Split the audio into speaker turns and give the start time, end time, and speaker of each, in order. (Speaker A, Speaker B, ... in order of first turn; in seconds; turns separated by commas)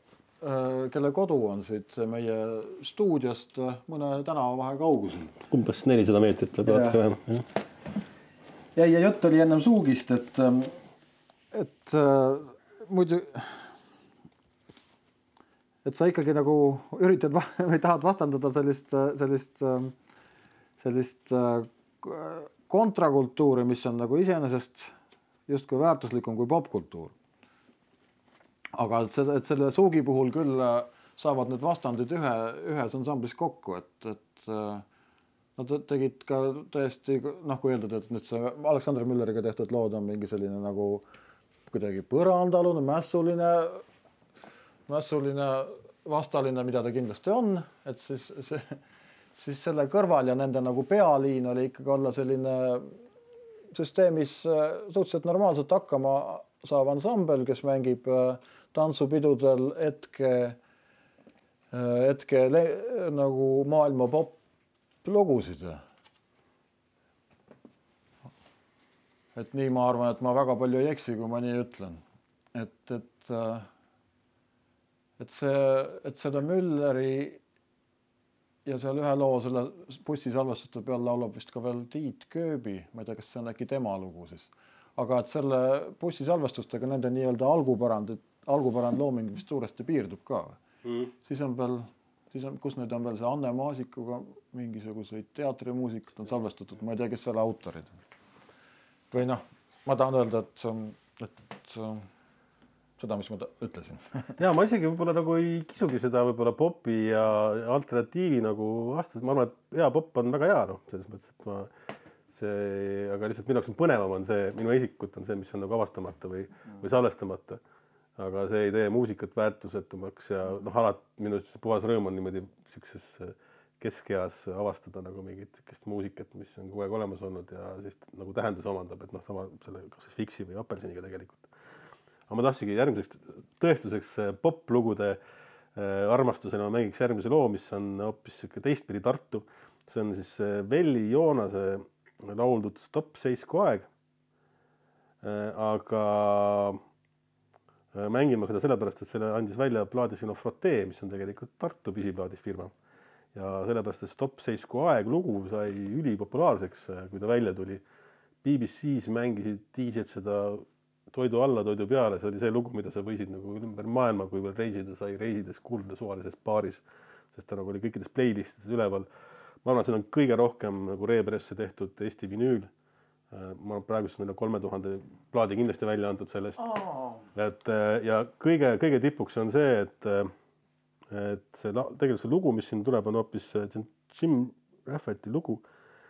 Speaker A: 0.4-5.3, Speaker B: 5.5-7.5, Speaker A: 6.6-7.0, Speaker A: 8.8-10.8, Speaker A: 11.5-13.7, Speaker A: 15.8-19.9, Speaker A: 20.8-24.9, Speaker A: 25.5-27.1, Speaker A: 28.8-34.9, Speaker A: 35.6-41.0, Speaker A: 41.7-43.8, Speaker A: 44.9-48.8, Speaker A: 49.4-52.9, Speaker A: 53.7-60.6, Speaker A: 61.7-64.4, Speaker A: 65.0-65.8, Speaker A: 69.3-72.0, Speaker A: 72.5-73.7, Speaker A: 75.2-77.4, Speaker A: 78.7-90.6, Speaker B: 90.8-91.1, Speaker A: 91.2-97.9, Speaker A: 99.1-102.1, Speaker A: 103.0-104.3, Speaker B: 104.4-111.7, Speaker B: 112.3-117.6, Speaker B: 118.2-131.5, Speaker B: 132.3-135.2, Speaker B: 135.8-143.9, Speaker B: 145.2-146.8, Speaker B: 147.9-152.7, Speaker B: 153.3-157.8, Speaker B: 158.4-169.1, Speaker B: 169.6-172.7, Speaker B: 173.3-176.7, Speaker A: 176.6-177.2, Speaker B: 177.3-180.3, Speaker B: 181.1-185.6